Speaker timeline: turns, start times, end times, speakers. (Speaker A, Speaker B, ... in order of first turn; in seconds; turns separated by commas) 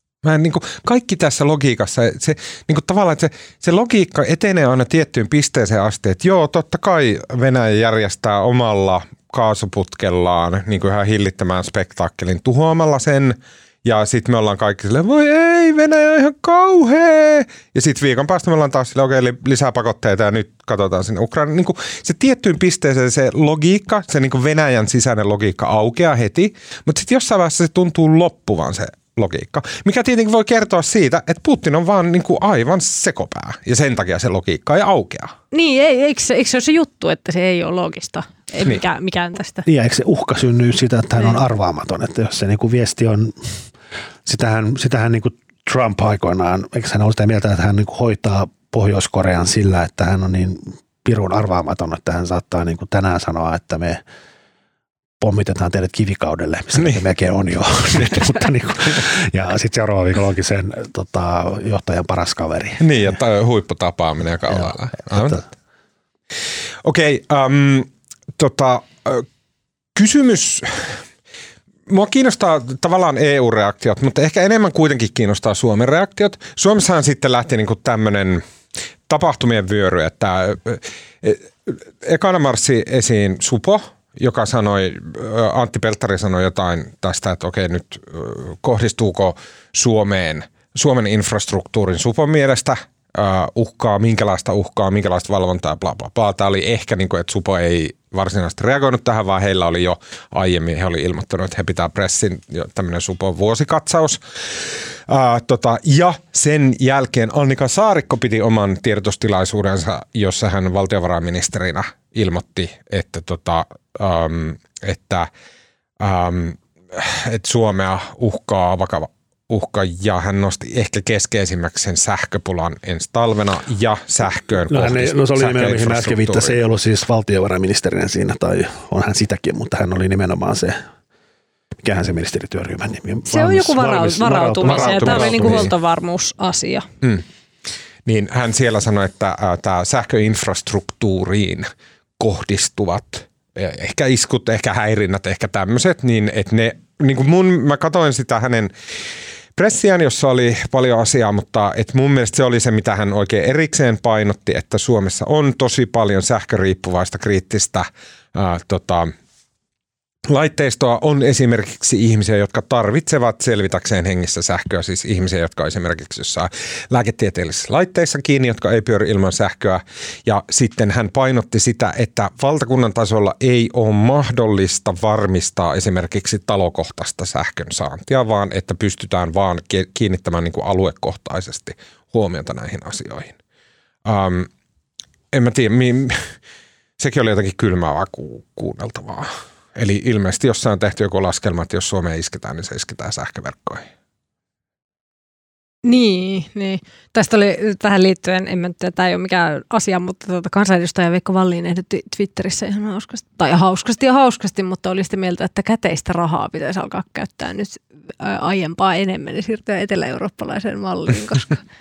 Speaker A: 0.2-35.3, Speaker B: 35.5-39.6, Speaker C: 39.6-43.5, Speaker C: 44.2-54.0, Speaker C: 55.2-62.8, Speaker A: 62.8-65.4, Speaker C: 65.1-65.4, Speaker A: 66.8-69.3, Speaker A: 70.0-71.0, Speaker A: 71.9-78.4, Speaker A: 79.1-115.3, Speaker A: 116.0-126.6, Speaker C: 124.7-130.8, Speaker C: 131.8-135.7, Speaker B: 133.3-136.9, Speaker A: 134.7-135.7, Speaker A: 138.1-148.7, Speaker A: 149.6-159.1, Speaker A: 160.3-183.4, Speaker A: 184.1-184.5, Speaker A: 185.3-186.3, Speaker A: 187.0-193.8, Speaker B: 195.8-211.6